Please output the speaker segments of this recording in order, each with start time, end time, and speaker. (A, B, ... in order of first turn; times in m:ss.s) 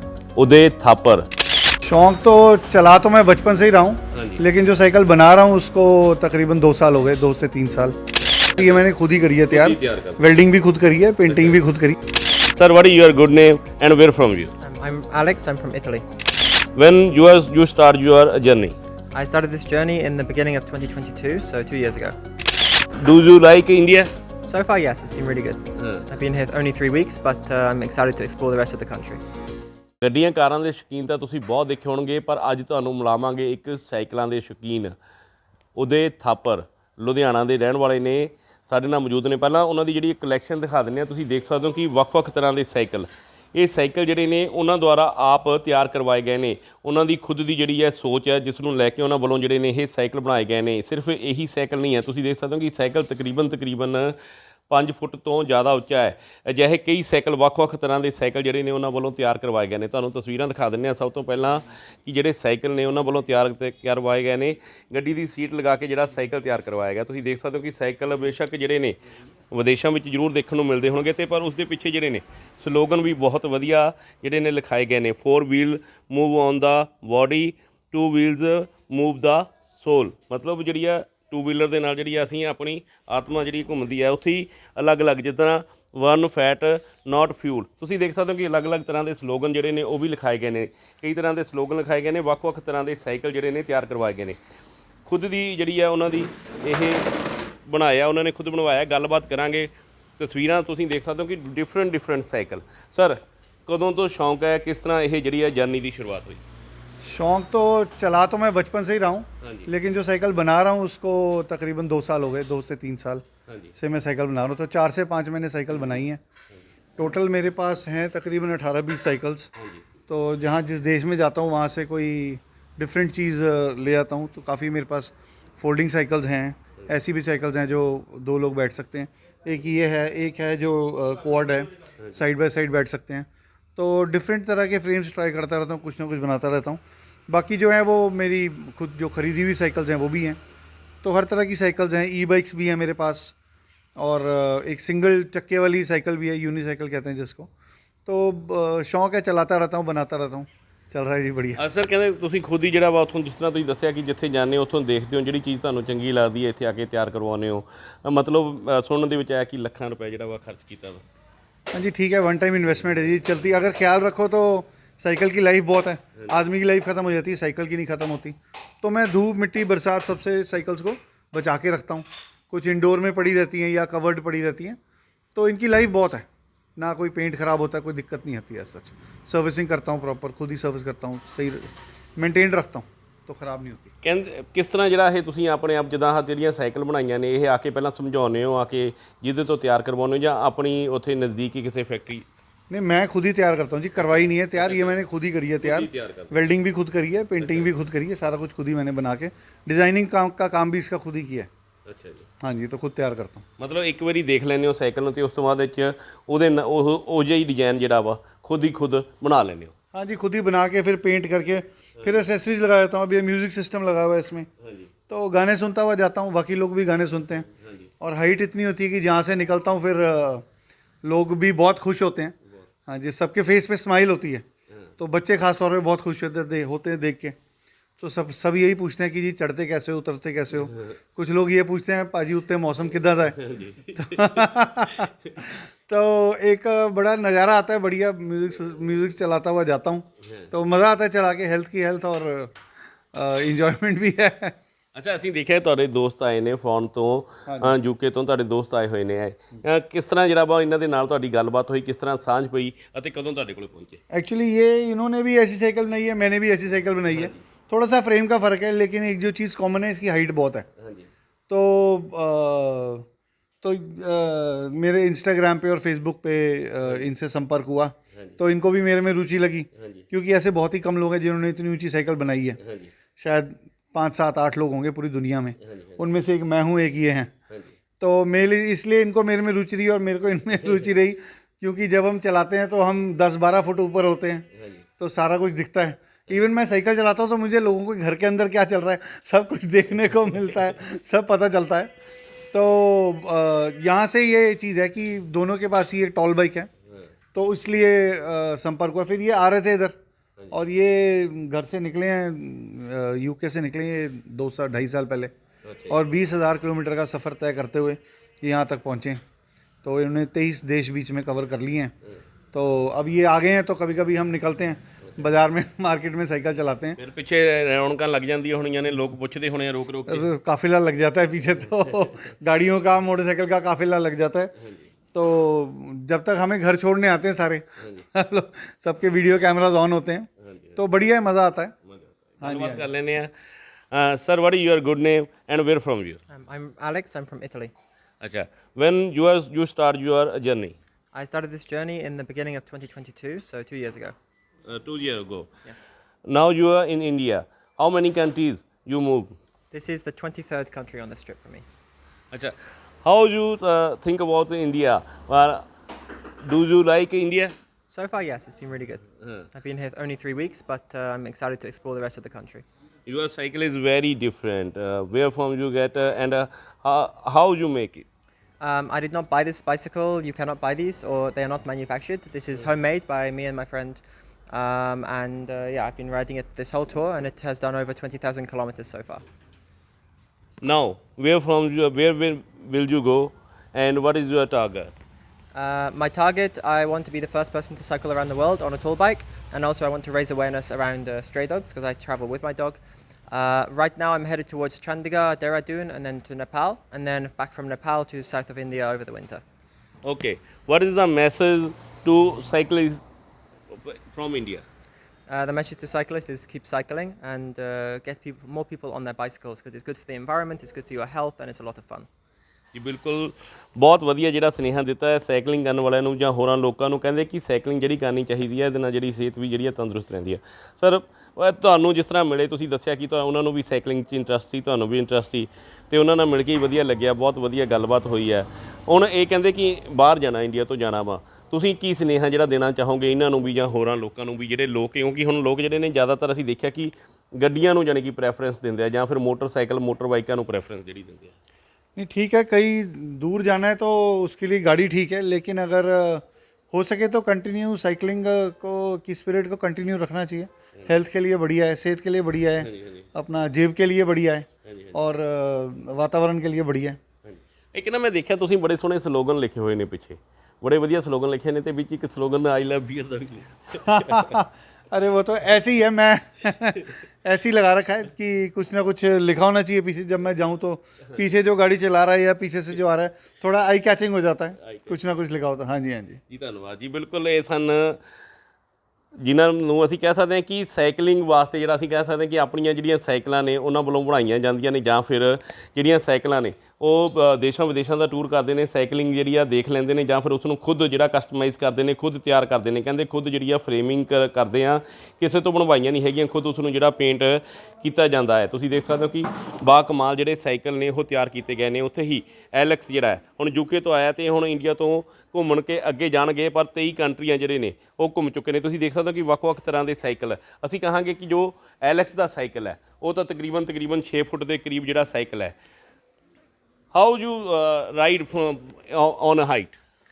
0:00.4-0:01.3 A
0:01.8-0:08.0 B
0:04.1-0:04.4 A
0:08.6-0:12.0 B
0:09.5-0:10.2 A
0:12.6-0:14.5 A
0:14.6-0:16.0 C
0:16.8-0:18.8 A
0:19.1-0:22.2 C
0:23.0-0:24.1 A
0:24.4-0:29.2 C
0:25.8-0:26.0 A
0:30.0-0:35.0 A
0:35.8-0:54.2 A
0:54.7-1:09.0 A
1:09.5-1:34.4 A
1:35.1-1:37.1 A
1:37.7-1:46.4 A
1:47.0-1:56.2 B
1:49.4-1:49.7 A
1:53.5-1:53.7 A
1:57.0-1:59.5 B
1:59.6-1:59.8 A
2:00.1-2:20.4 B
2:21.0-2:23.4 B
2:24.0-2:27.5 B
2:28.1-2:31.6 B
2:31.6-2:41.0 A
2:41.7-2:54.8 B
2:55.4-3:03.9 B
3:04.0-3:12.3 A
3:12.7-3:21.5 B
3:14.6-3:15.0 A
3:15.6-3:16.4 A
3:17.4-3:17.7 A
3:21.9-3:22.3 A
3:22.4-3:23.4 B
3:23.6-3:29.7 A
3:29.9-3:34.5 B
3:34.6-3:34.9 A
3:35.1-3:37.5 B
3:38.0-3:40.4 B
3:41.0-3:42.4 B
3:42.9-3:44.4 B
3:45.0-3:47.4 B
3:48.0-3:53.4 B
3:53.4-3:54.4 A
3:53.9-4:02.6 B
4:03.1-4:04.6 B
4:05.0-4:14.0 A
4:07.5-4:07.8 B
4:14.1-4:20.7 B
4:17.1-4:17.4 A
4:20.8-4:21.1 A
4:21.5-4:23.1 B
4:23.6-4:32.6 B
4:29.8-4:30.0 A
4:32.6-4:32.9 A
4:33.2-4:37.3 B
4:35.6-4:36.0 A
4:37.5-4:37.8 A
4:38.0-4:44.5 B
4:44.6-4:44.8 A
4:45.0-4:51.9 B
4:52.5-4:56.7 B
4:57.3-5:00.0 B
5:00.5-5:05.3 B
5:05.6-5:06.0 A
5:05.9-5:09.2 B
5:09.8-5:11.9 B
5:12.5-5:17.0 B
5:17.0-5:20.3 A
5:20.1-5:24.5 B
5:25.1-5:31.8 B
5:30.4-5:30.8 A
5:31.9-5:33.3 A
5:32.4-5:32.9 B
5:33.9-5:36.2 A
5:36.3-5:37.7 C
5:38.2-5:40.8 A
5:41.1-5:44.2 C
5:44.7-5:45.5 A
5:46.3-5:49.4 A
5:49.7-5:51.6 C
5:52.3-5:55.7 A
5:56.4-5:57.6 A
5:57.9-6:02.6 C
6:03.1-6:08.1 A
6:08.6-6:19.2 C
6:20.6-6:24.9 A
6:25.5-6:39.4 C
6:40.0-6:43.0 A
6:43.7-6:44.6 A
6:45.3-6:52.1 C
6:52.7-7:21.4 A
7:22.0-7:37.0 B
7:32.6-7:33.1 A
7:34.6-7:35.0 A
7:37.2-7:44.4 A
7:43.8-7:56.2 B
7:54.6-7:54.9 A
7:56.3-7:58.0 A
7:59.2-8:35.6 A
8:36.9-8:39.8 A